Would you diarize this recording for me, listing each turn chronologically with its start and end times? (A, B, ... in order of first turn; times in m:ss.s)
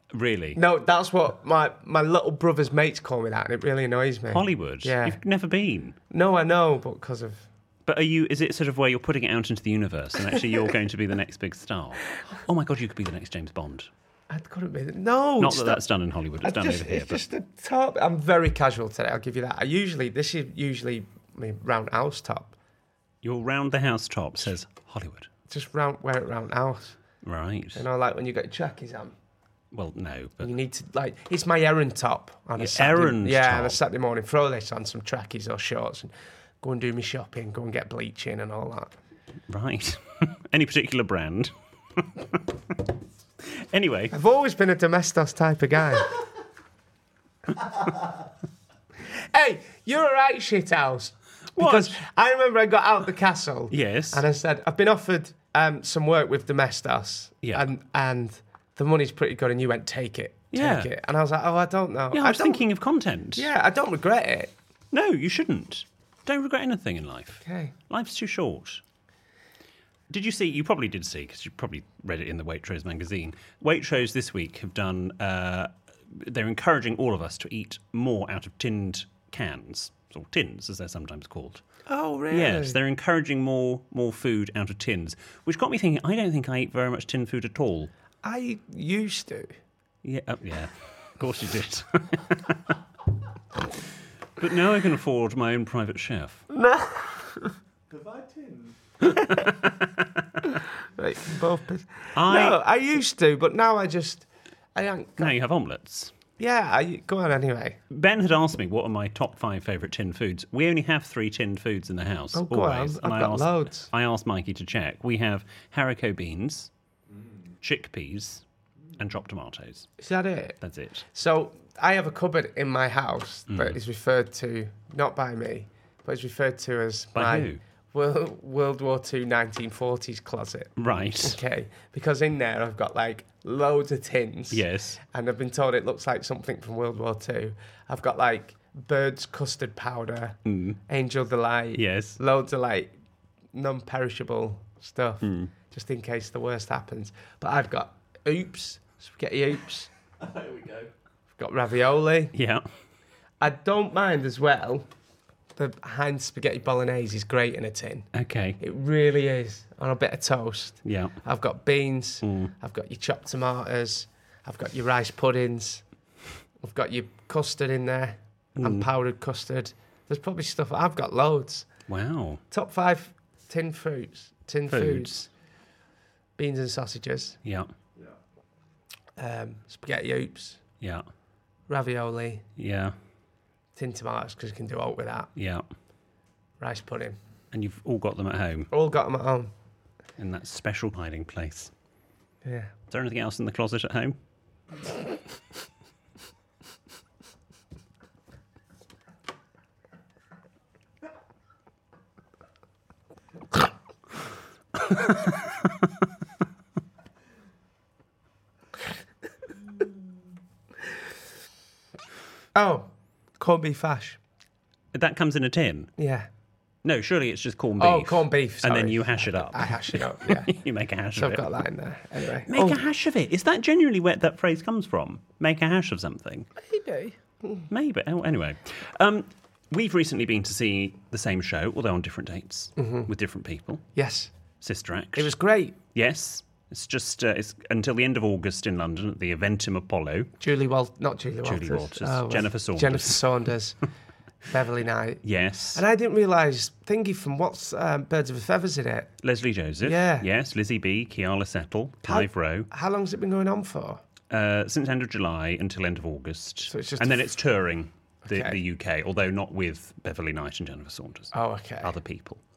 0:00.1-0:00.6 A
0:00.5-0:05.2 B
0:04.3-0:06.0 A
0:06.1-0:07.5 B
0:07.8-0:13.9 A
0:14.3-0:15.8 B
0:15.4-0:17.2 A
0:16.4-0:22.5 B
0:23.2-0:25.3 A
0:25.5-0:27.0 B
0:27.2-0:27.8 A
0:27.7-0:29.2 B
0:29.7-0:30.5 A
0:30.4-0:39.0 B
0:32.6-0:33.8 A
0:39.5-0:42.7 A
0:43.5-0:44.1 A
0:44.1-0:46.1 B
0:49.1-1:02.6 B
0:51.6-0:52.0 A
0:53.7-0:54.2 A
0:57.4-0:57.7 A
1:00.5-1:00.9 A
1:02.1-1:03.5 A
1:03.4-1:04.5 B
1:04.9-1:08.8 A
1:07.4-1:07.7 B
1:10.1-1:21.6 A
1:21.9-1:22.8 B
1:22.3-1:27.9 A
1:28.2-1:29.5 B
1:30.0-1:32.7 A
1:34.4-1:36.4 A
1:36.5-1:37.4 B
1:37.9-1:39.1 C
1:39.3-1:40.0 A
1:41.0-1:45.3 B
1:42.1-1:42.6 A
1:45.2-1:46.1 A
1:46.4-1:47.8 B
1:47.9-1:56.7 A
1:52.3-1:53.9 B
1:57.6-1:58.4 A
1:59.0-1:59.9 A
2:00.0-2:00.6 B
2:00.6-2:01.0 A
2:01.1-2:22.9 B
2:03.5-2:03.8 A
2:07.1-2:07.6 A
2:10.8-2:11.4 A
2:14.5-2:15.0 A
2:20.4-2:20.8 A
2:21.8-2:22.2 A
2:23.5-2:29.9 B
2:25.2-2:25.5 A
2:30.2-2:30.9 C
2:31.3-2:32.3 B
2:32.3-2:32.6 A
2:33.4-2:34.9 B
2:35.6-2:38.1 B
2:38.1-2:38.6 A
2:38.6-2:45.8 B
2:40.8-2:41.2 A
2:42.2-2:42.5 A
2:46.6-2:51.7 B
2:48.6-2:48.9 A
2:51.9-2:52.4 A
2:52.5-2:55.2 B
2:54.7-2:55.3 A
2:56.4-2:57.4 B
2:57.4-2:57.7 A
2:59.2-3:00.6 B
3:01.7-3:02.4 B
3:02.6-3:02.9 A
3:03.7-3:05.3 B
3:05.4-3:05.6 A
3:06.6-3:07.2 B
3:07.5-3:08.7 A
3:08.7-3:09.5 B
3:10.2-3:11.7 A
3:12.4-3:12.7 B
3:12.9-3:14.2 A
3:32.5-3:34.2 B
3:34.9-3:35.9 A
3:36.0-3:36.3 B
3:36.8-3:41.4 A
3:37.8-3:40.6 B
3:41.1-3:42.8 B
3:42.5-3:46.5 A
3:46.6-3:47.6 B
3:47.7-3:53.8 A
3:52.8-3:53.1 B
3:53.9-3:54.3 B
3:54.6-3:55.3 A
3:55.1-3:55.8 B
3:55.9-4:00.3 A
4:00.4-4:03.8 B
4:01.4-4:03.2 A
4:04.5-4:05.2 B
4:05.2-4:05.8 A
4:05.7-4:09.1 B
4:09.2-4:12.7 A
4:09.8-4:10.3 B
4:12.0-4:14.0 B
4:14.3-4:22.4 A
4:16.7-4:17.3 B
4:18.2-4:18.6 B
4:21.3-4:21.9 B